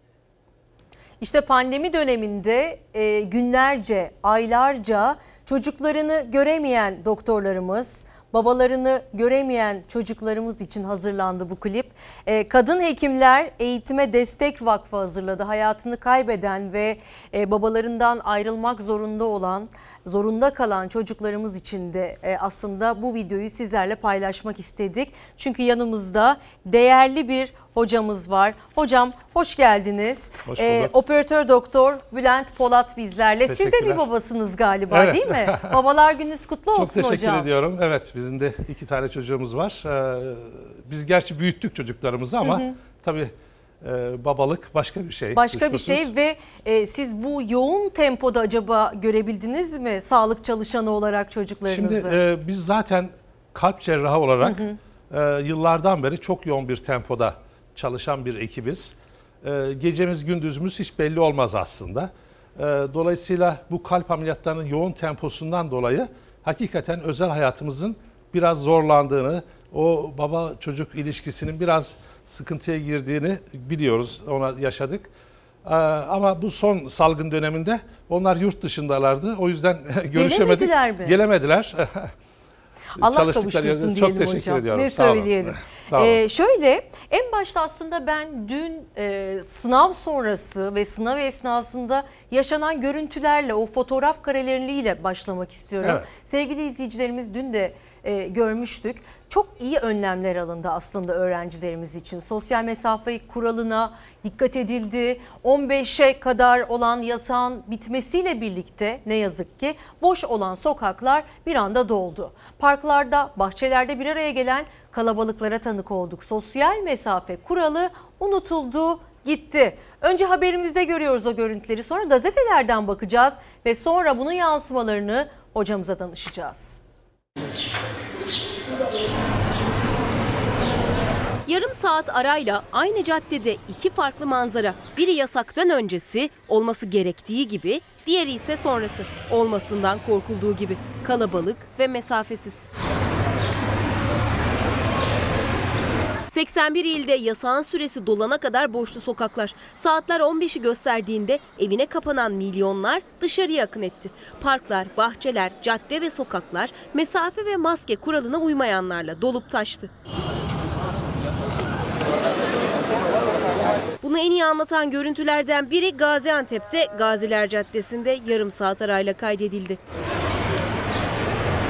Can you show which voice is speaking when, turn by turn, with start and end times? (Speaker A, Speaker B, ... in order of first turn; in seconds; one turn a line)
Speaker A: 1.2-37.5
Speaker B: 30.5-30.9
Speaker B: 33.5-34.0
Speaker B: 34.9-35.8
Speaker B: 36.8-46.1
Speaker A: 42.4-42.7
Speaker A: 45.4-52.2
Speaker B: 51.7-75.1
Speaker A: 54.4-54.8
Speaker B: 75.6-82.1
Speaker A: 80.2-81.2
Speaker A: 83.0-126.8
Speaker B: 83.0-86.2
Speaker C: 131.5-142.7
Speaker C: 146.3-159.9
Speaker C: 164.0-169.8